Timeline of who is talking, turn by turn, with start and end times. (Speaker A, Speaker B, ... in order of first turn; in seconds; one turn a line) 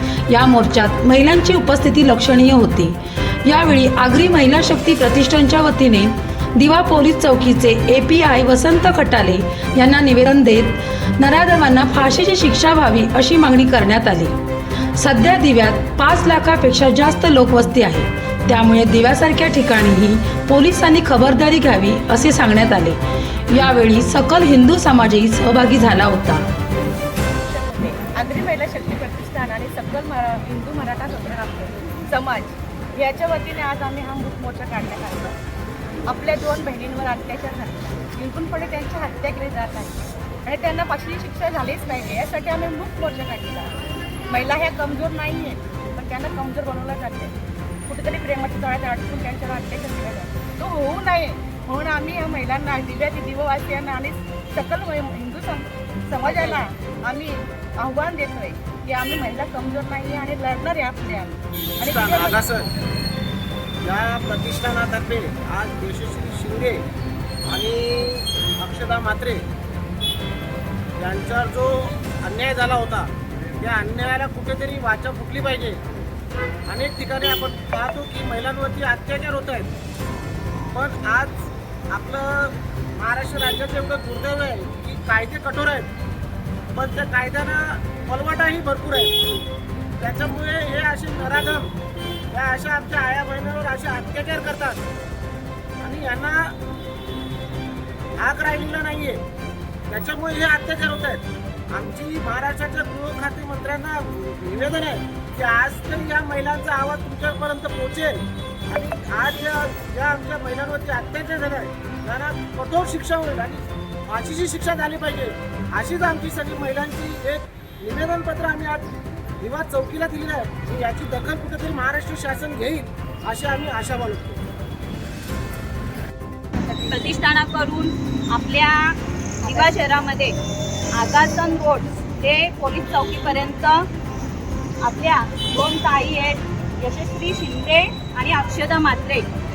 Speaker A: 0.3-14.3
Speaker A: 15.0-23.0
Speaker A: 23.5-26.4
Speaker B: 27.4-35.4
Speaker B: 36.1-43.8
Speaker B: 44.3-47.3
Speaker B: 47.9-62.4
Speaker C: 56.2-56.6
Speaker C: 61.8-62.7
Speaker C: 63.8-66.8
Speaker C: 67.5-69.4
Speaker C: 71.0-75.8
Speaker C: 76.7-79.7
Speaker C: 80.7-85.9
Speaker C: 86.7-89.2
Speaker C: 90.0-91.7
Speaker C: 92.3-94.8
Speaker C: 95.8-96.6
Speaker C: 98.2-99.2
Speaker C: 99.9-124.4
Speaker B: 126.5-127.2
Speaker D: 126.9-130.3
Speaker B: 129.4-129.8
Speaker D: 130.9-133.9
Speaker D: 134.8-139.3